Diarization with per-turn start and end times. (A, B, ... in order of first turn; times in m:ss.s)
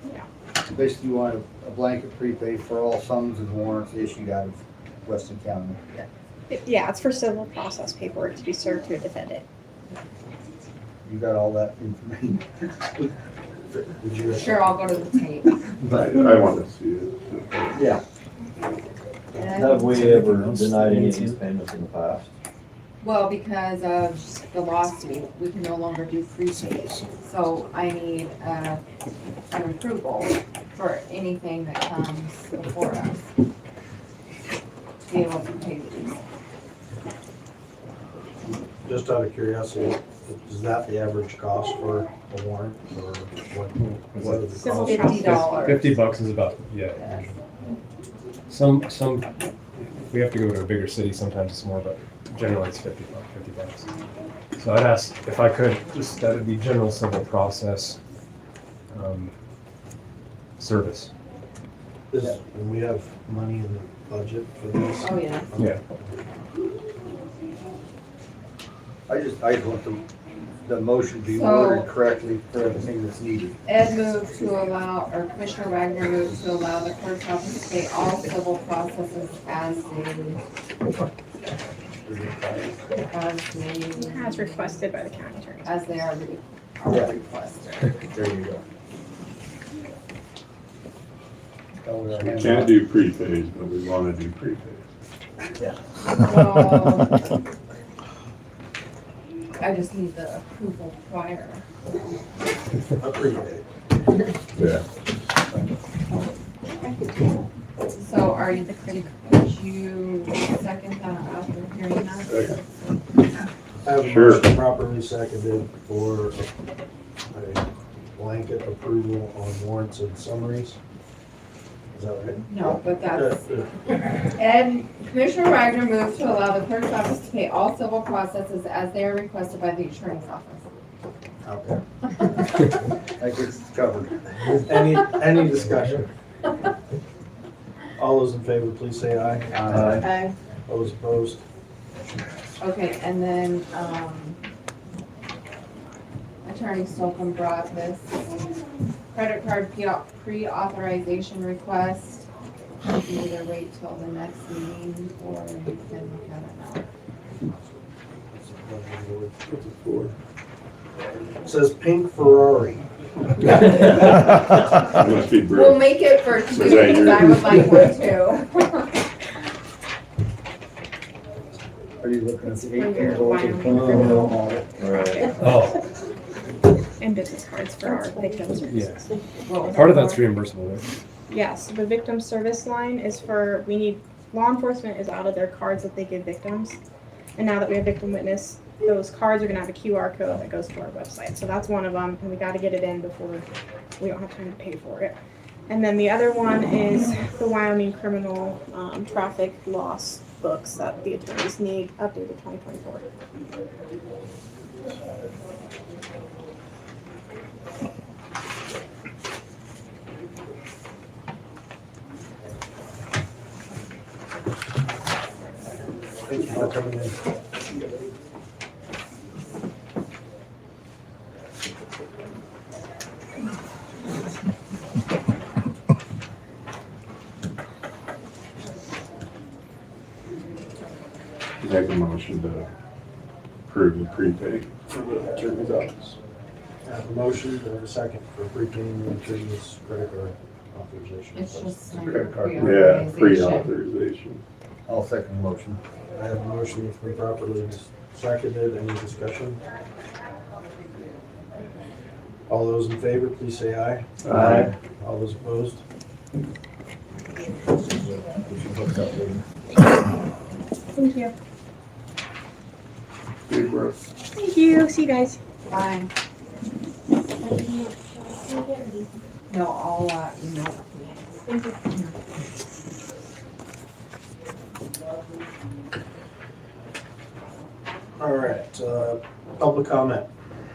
0:00.6-0:05.8 A
0:06.5-0:09.4 B
0:11.0-0:13.0 A
0:14.0-0:14.7 C
0:14.3-0:15.8 D
0:15.8-0:17.8 E
0:17.7-0:18.0 A
0:19.3-0:20.2 D
0:19.5-0:22.2 F
0:19.9-0:21.4 C
0:23.0-0:28.8 D
0:29.5-0:33.3 D
0:35.0-0:36.2 D
0:38.8-0:45.5 C
0:43.8-0:47.3 G
0:44.6-0:45.7 B
0:44.8-0:46.0 D
0:48.5-0:53.9 G
0:54.6-0:58.0 G
0:58.9-0:59.3 G
1:00.6-1:01.1 G
1:02.1-1:06.1 C
1:05.0-1:05.5 D
1:09.1-1:10.0 A
1:10.6-1:13.6 A
1:11.3-1:11.9 D
1:13.6-1:20.4 D
1:22.0-1:22.8 A
1:23.1-1:25.0 D
1:24.0-1:26.0 B
1:25.6-1:28.0 D
1:26.9-1:27.1 A
1:28.0-1:28.6 A
1:31.8-1:32.8 A
1:32.1-1:34.8 E
1:36.0-1:37.4 D
1:39.6-1:41.6 D
1:43.0-1:43.6 C
1:44.6-1:44.8 E
1:46.8-1:47.2 B
1:48.0-1:52.6 D
1:48.4-1:49.1 B
1:52.3-1:52.6 E
1:53.8-1:56.5 C
1:54.0-1:54.5 E
1:57.3-2:00.8 C
2:01.9-2:02.5 C
2:02.5-2:03.6 D
2:03.0-2:03.7 C
2:04.2-2:10.6 D
2:11.4-2:11.8 A
2:13.2-2:14.2 A
2:14.6-2:16.1 C
2:18.0-2:20.0 C
2:19.5-2:20.0 A
2:19.8-2:20.3 D
2:20.7-2:21.4 C
2:22.6-2:24.4 D
2:26.4-2:28.2 D
2:29.1-2:32.3 D
2:32.8-2:36.9 D
2:37.4-2:39.3 C
2:39.5-2:40.1 E
2:41.4-2:42.8 C
2:44.8-2:47.8 E
2:45.5-2:49.0 D
2:52.0-2:54.7 A
2:52.5-2:55.7 B
2:54.8-2:55.1 F
2:55.4-2:55.8 G
2:57.0-2:59.1 B
2:58.7-2:59.0 G
2:59.4-3:00.2 D
2:59.7-3:00.9 G
3:01.3-3:06.8 B
3:07.4-3:13.5 B
3:14.0-3:15.2 B
3:15.7-3:23.1 B
3:36.2-3:37.2 C
3:51.6-3:52.7 E
3:53.7-3:56.2 E
3:56.8-4:01.9 C
4:01.3-4:03.7 D
4:01.9-4:04.4 E
4:04.9-4:05.8 A
4:06.1-4:09.6 C
4:12.5-4:14.1 C
4:14.2-4:14.7 E
4:14.3-4:14.6 A
4:14.8-4:15.8 C
4:18.0-4:19.4 A
4:20.9-4:21.3 B
4:23.5-4:24.0 E
4:24.3-4:25.4 B
4:25.7-4:26.1 D
4:27.4-4:29.1 B
4:29.5-4:32.2 D
4:38.2-4:40.3 C